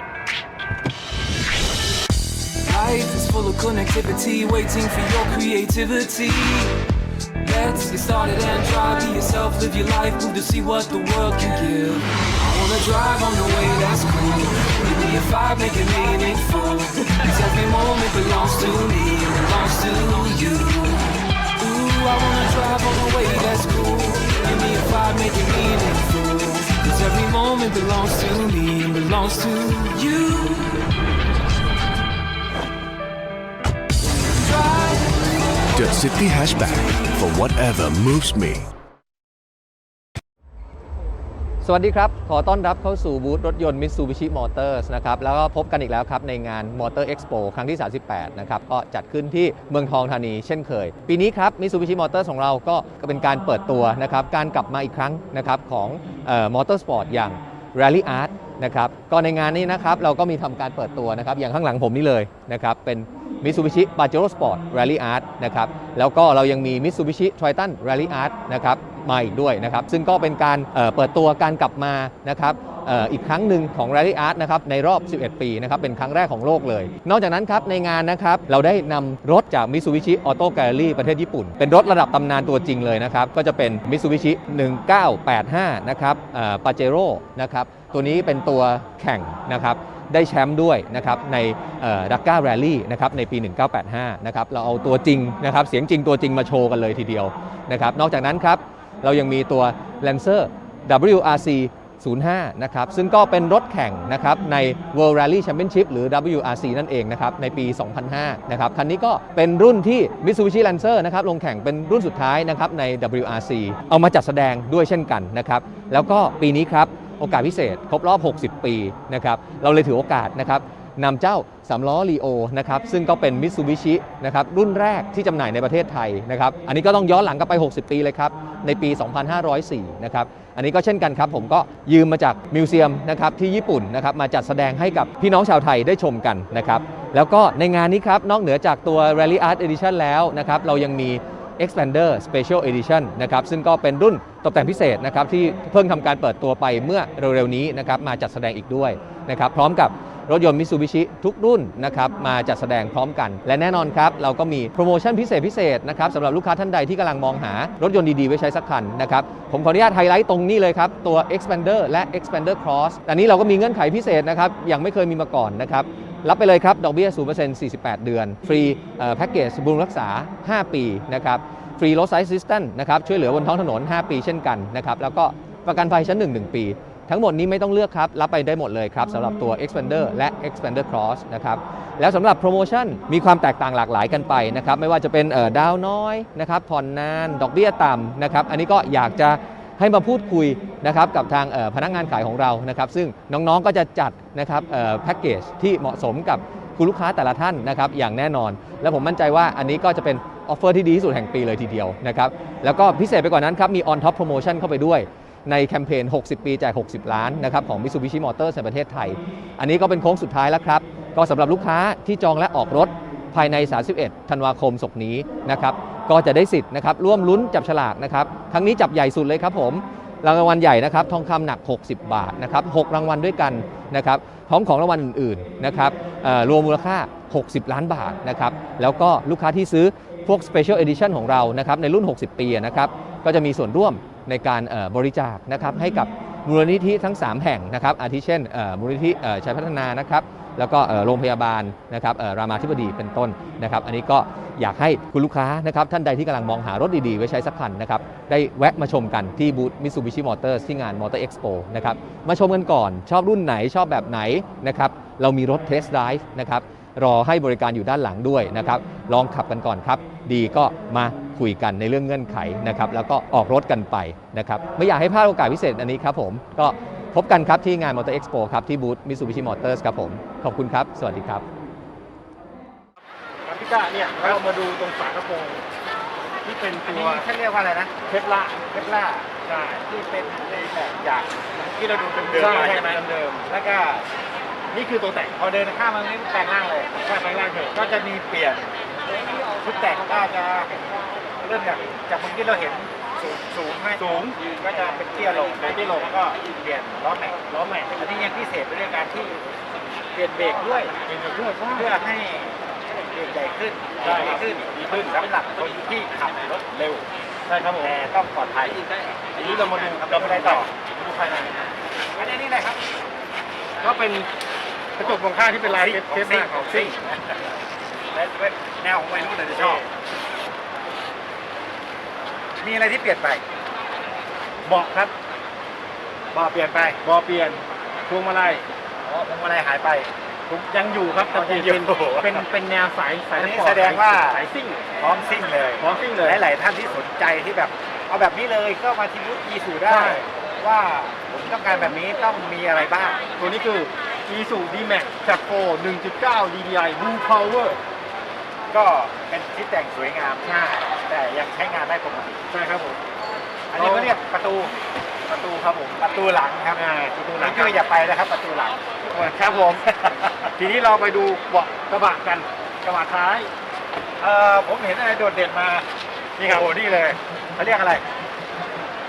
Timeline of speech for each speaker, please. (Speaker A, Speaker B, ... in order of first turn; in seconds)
Speaker A: 2.6-6.8, 7.4-21.1, 21.6-30.9, 34.5-35.0
Speaker B: 35.7-38.7
Speaker C: 41.6-271.4
Speaker D: 273.5-275.6, 276.4-277.2, 278.1-278.6, 279.4-279.8, 282.2-283.4, 284.7-285.3, 287.0-287.8, 294.0-294.4, 295.6-296.1, 297.5-297.9, 301.1-301.9, 304.0-305.4, 307.5-307.9, 309.4-311.6, 313.8-314.3, 315.0-316.9, 319.4-319.8, 324.6-325.1, 327.0-328.7, 330.5-334.9, 335.8-336.4, 339.9-340.2, 343.4-347.8, 350.4-350.7, 352.5-353.0, 353.7-354.2, 355.3-355.9, 356.7-357.8, 359.0-359.8, 360.6-363.5, 366.4-367.1
Speaker E: 274.2-274.4, 276.8-277.9, 278.7-279.3, 279.8-284.1, 285.3-287.0, 287.7-288.7, 289.6-297.4, 297.9-299.4, 300.1-300.9, 301.7-307.0, 307.8-310.7, 312.1-312.8, 315.7-317.4, 318.1-319.9, 322.6-323.4, 326.3-327.0, 329.0-330.1, 331.3-332.5, 333.3-334.4, 335.0-343.2, 348.7-352.4, 353.7-354.7, 355.8-360.5, 364.2-365.9, 366.4-368.0